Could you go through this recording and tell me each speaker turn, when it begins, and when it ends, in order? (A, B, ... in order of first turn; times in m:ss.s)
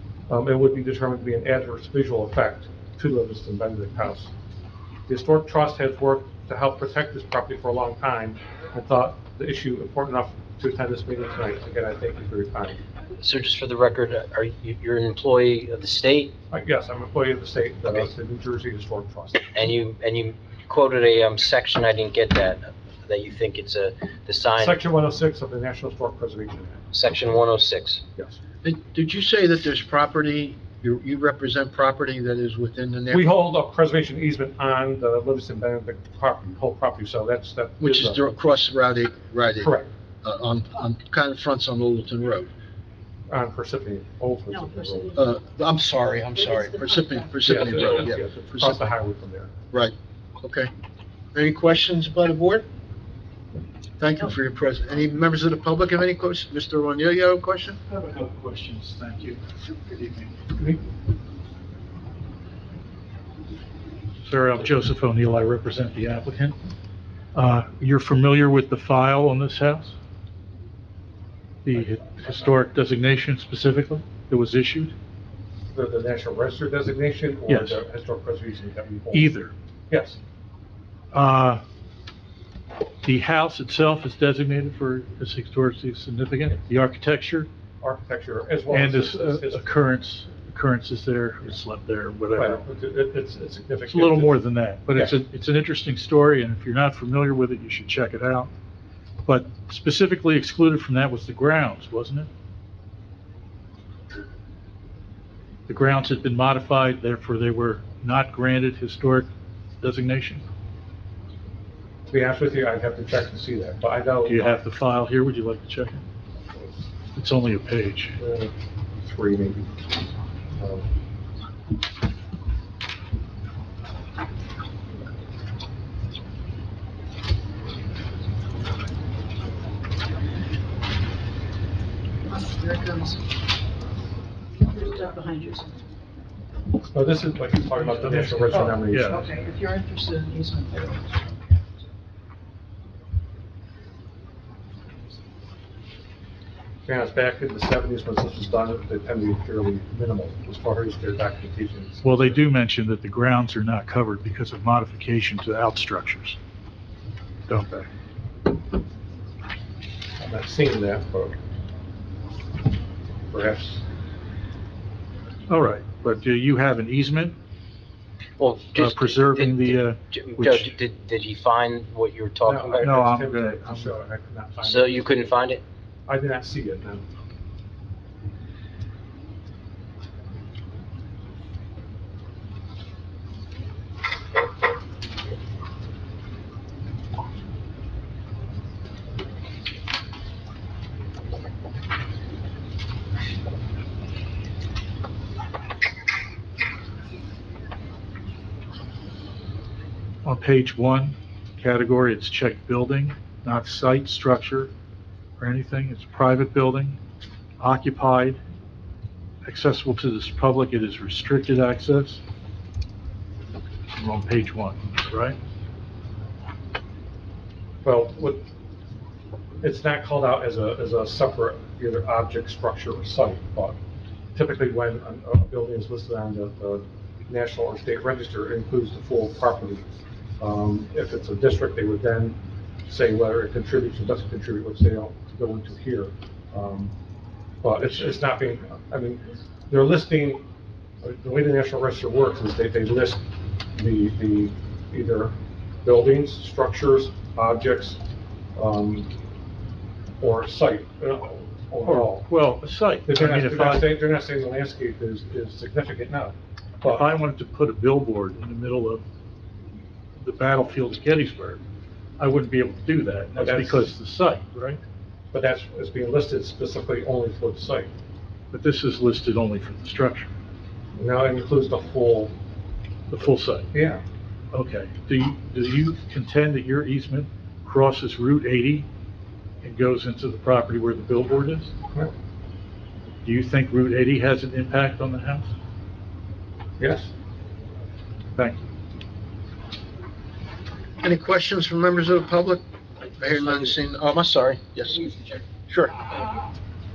0:00.3-0:04.3 A
0:05.1-0:12.8 A
0:13.2-0:16.3 B
0:16.5-0:19.6 A
0:19.5-0:24.8 B
0:24.6-0:26.8 A
0:26.9-0:28.0 B
0:28.6-0:33.3 C
0:33.1-0:38.2 A
0:37.8-0:42.5 C
0:39.6-0:39.9 A
0:43.3-0:45.2 A
0:44.6-0:45.2 D
0:45.1-0:48.8 C
0:46.5-0:47.5 D
0:47.4-0:49.5 A
0:49.7-0:50.7 C
0:51.3-0:52.6 C
0:54.0-0:57.8 C
0:57.9-1:00.3 E
1:04.2-1:06.6 E
1:07.3-1:09.9 E
1:11.6-1:14.9 E
1:15.7-1:19.3 A
1:17.5-1:17.8 E
1:19.1-1:19.5 E
1:19.9-1:20.2 A
1:21.1-1:21.6 E
1:23.0-1:27.5 E
1:27.8-1:29.7 A
1:28.7-1:32.6 E
1:32.3-1:34.4 A
1:33.9-1:38.5 E
1:39.2-1:42.3 E
1:45.7-1:49.3 E
1:49.8-1:50.4 E
1:52.1-1:54.6 A
1:54.2-1:56.0 E
1:57.2-1:58.1 E
1:58.2-1:59.8 A
2:00.6-2:00.9 A
2:12.3-2:13.2 D
2:14.6-2:15.7 D
2:16.9-2:19.3 A
2:17.7-2:19.3 E
2:19.0-2:21.6 D
2:26.8-2:32.4 A
2:32.0-2:36.4 E
2:37.5-2:37.8 E
2:40.2-2:41.4 A
2:43.3-2:43.8 A
2:45.5-2:47.3 E
2:48.4-2:53.0 B
2:48.7-2:50.7 E
2:52.4-2:55.4 A
2:52.8-2:54.0 E
2:54.6-2:55.6 B
2:56.1-2:57.0 A
3:20.2-3:24.7 E
3:25.4-3:27.0 E
3:27.6-3:28.4 E
3:29.4-3:32.2 E
3:33.9-3:35.4 E
3:37.8-3:38.4 A
3:39.6-3:43.8 A
3:44.3-3:49.9 A
3:50.4-3:56.9 A
3:57.6-4:00.4 A
4:01.0-4:08.0 A
4:08.5-4:09.1 A
4:10.2-4:12.3 A
4:11.8-4:14.0 E
4:13.0-4:17.0 A
4:16.8-4:19.0 E
4:20.2-4:21.6 E
4:22.2-4:24.8 E
4:23.4-4:23.9 A
4:25.3-4:27.9 A
4:28.5-4:30.3 E
4:31.0-4:32.3 A
4:33.1-4:33.7 E
4:33.7-4:34.0 A
4:34.5-4:38.9 E
4:39.6-4:41.7 E
4:43.2-4:45.5 E
4:46.8-4:47.1 A
4:51.0-4:52.6 C
4:53.2-4:55.1 C
4:55.7-4:55.9 C